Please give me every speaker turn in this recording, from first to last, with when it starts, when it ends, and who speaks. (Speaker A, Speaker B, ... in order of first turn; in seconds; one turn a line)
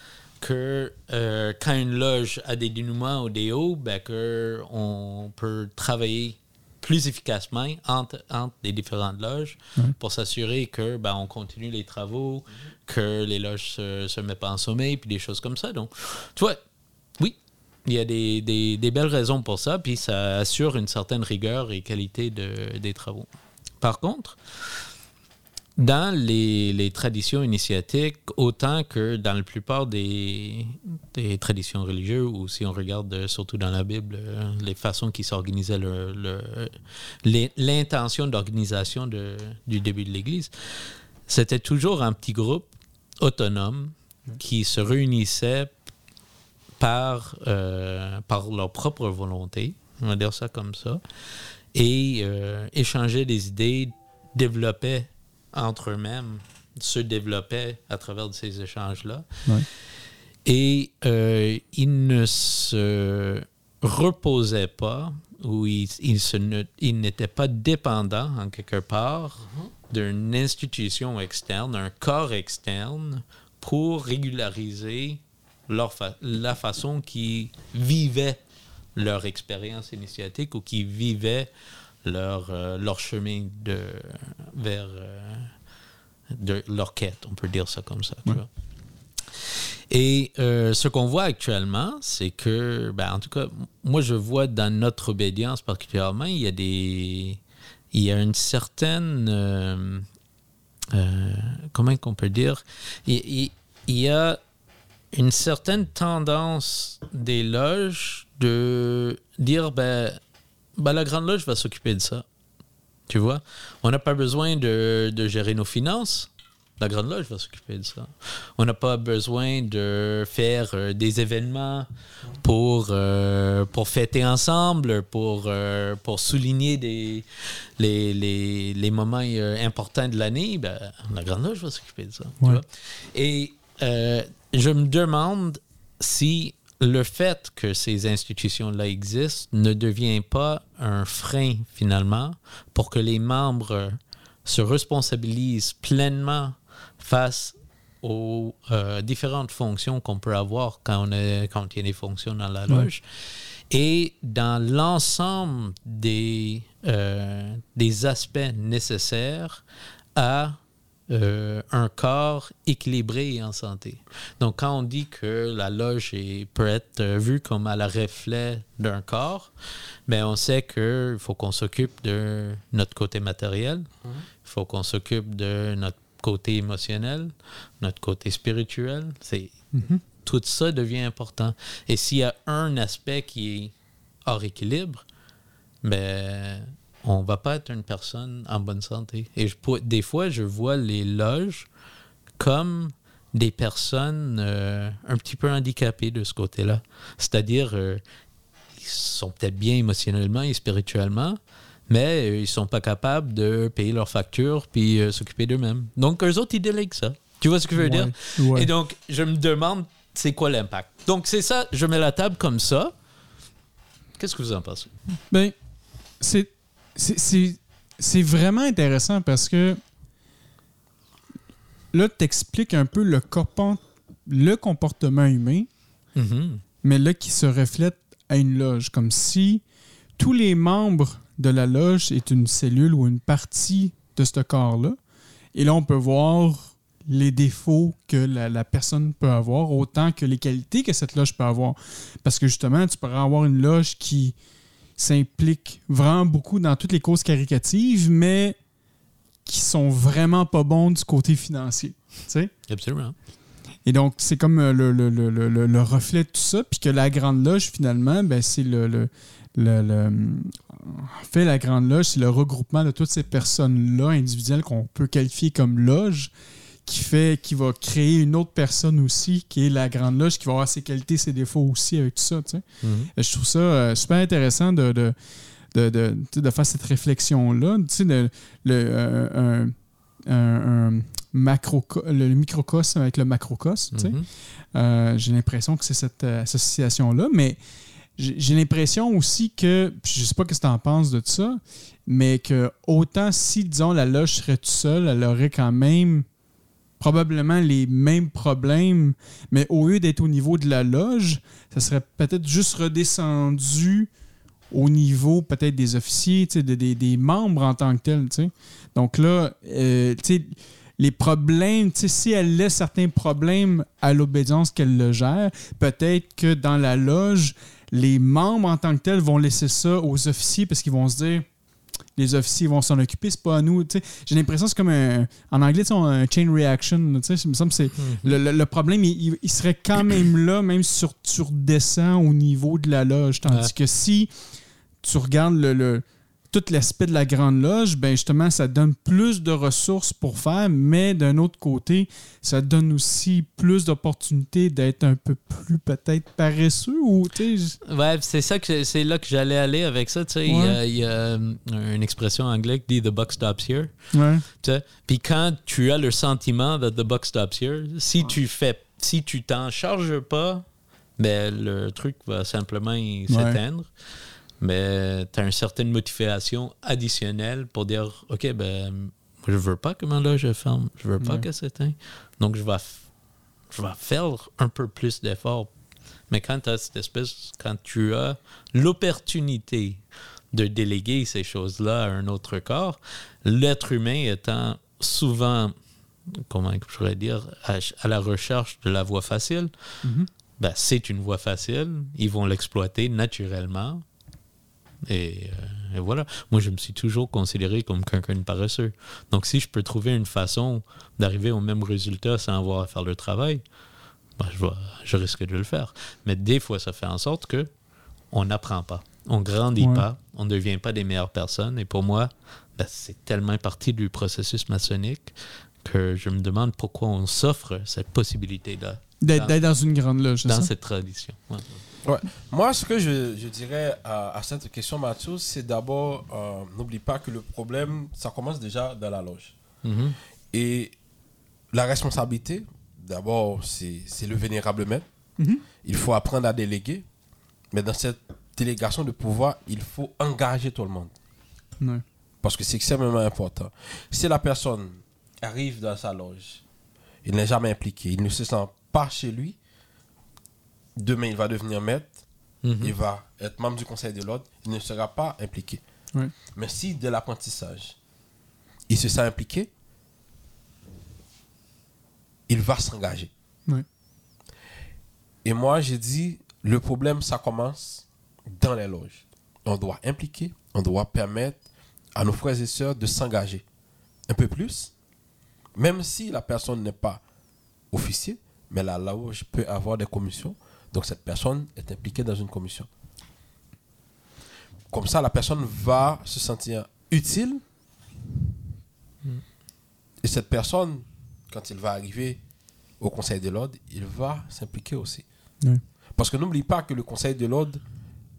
Speaker A: 0.4-16.6
Speaker A: 17.2-23.3
Speaker A: 23.8-24.8
Speaker A: 25.8-42.7
Speaker A: 43.2-45.7
Speaker A: 46.8-51.0
Speaker A: 51.7-59.3
Speaker A: 60.5-78.4
Speaker A: 79.0-81.5
Speaker A: 82.0-85.5
Speaker A: 86.3-88.5
Speaker A: 89.5-97.4
Speaker A: 97.9-100.1
Speaker A: 100.9-104.4
Speaker A: 105.1-110.2
Speaker A: 110.8-112.2
Speaker A: 113.1-116.3
Speaker A: 116.8-121.9
Speaker A: 122.4-127.2
Speaker A: 127.8-159.6
Speaker A: 160.2-160.6
Speaker A: 161.1-169.5
Speaker A: 170.1-173.9
Speaker A: 174.4-179.6
Speaker B: 179.7-180.0
Speaker A: 180.2-183.7
Speaker A: 184.2-185.0
Speaker A: 185.8-191.7
Speaker A: 192.4-198.0
Speaker A: 198.8-201.4
Speaker A: 201.9-212.9
Speaker B: 207.8-208.7
Speaker A: 214.2-214.9
Speaker B: 216.2-219.8
Speaker B: 221.9-225.7
Speaker A: 226.2-226.6
Speaker B: 226.8-229.6
Speaker B: 230.2-235.0
Speaker B: 235.6-244.3
Speaker B: 245.0-248.6
Speaker B: 249.5-252.5
Speaker A: 252.7-253.2
Speaker B: 253.9-266.3
Speaker B: 266.9-272.6
Speaker A: 272.8-273.1
Speaker B: 273.1-275.1
Speaker B: 275.7-279.7
Speaker B: 280.3-284.2
Speaker A: 283.9-284.3
Speaker B: 284.7-287.6
Speaker B: 288.2-296.2
Speaker B: 297.0-304.1
Speaker B: 304.7-321.5
Speaker B: 322.2-334.3
Speaker A: 328.0-328.4
Speaker B: 335.0-347.8
Speaker A: 347.9-360.6
Speaker B: 350.5-350.8
Speaker B: 354.1-354.4
Speaker A: 361.2-363.9
Speaker B: 363.3-363.6
Speaker A: 364.6-373.1
Speaker B: 371.2-371.4
Speaker A: 373.7-375.7
Speaker A: 376.3-385.8
Speaker A: 386.3-389.7
Speaker B: 390.0-390.3
Speaker A: 390.6-394.0
Speaker A: 395.1-403.6
Speaker A: 404.4-407.7
Speaker A: 408.3-419.6
Speaker B: 409.8-410.1
Speaker B: 419.2-420.7
Speaker A: 420.4-421.8
Speaker C: 422.0-429.6
Speaker A: 429.8-430.2
Speaker C: 430.5-430.9
Speaker C: 431.7-435.1
Speaker C: 435.8-437.1
Speaker C: 437.7-441.1
Speaker C: 442.4-446.6
Speaker C: 447.2-449.6
Speaker C: 451.0-452.2
Speaker A: 452.6-452.9
Speaker C: 452.8-455.8
Speaker C: 456.5-458.0
Speaker C: 458.9-459.7
Speaker C: 462.5-463.3
Speaker C: 465.4-471.6
Speaker C: 472.1-473.6
Speaker C: 474.3-474.9
Speaker C: 475.8-477.2
Speaker C: 477.9-482.9
Speaker C: 484.9-487.6
Speaker C: 490.2-492.4
Speaker C: 493.0-495.2
Speaker C: 496.2-497.8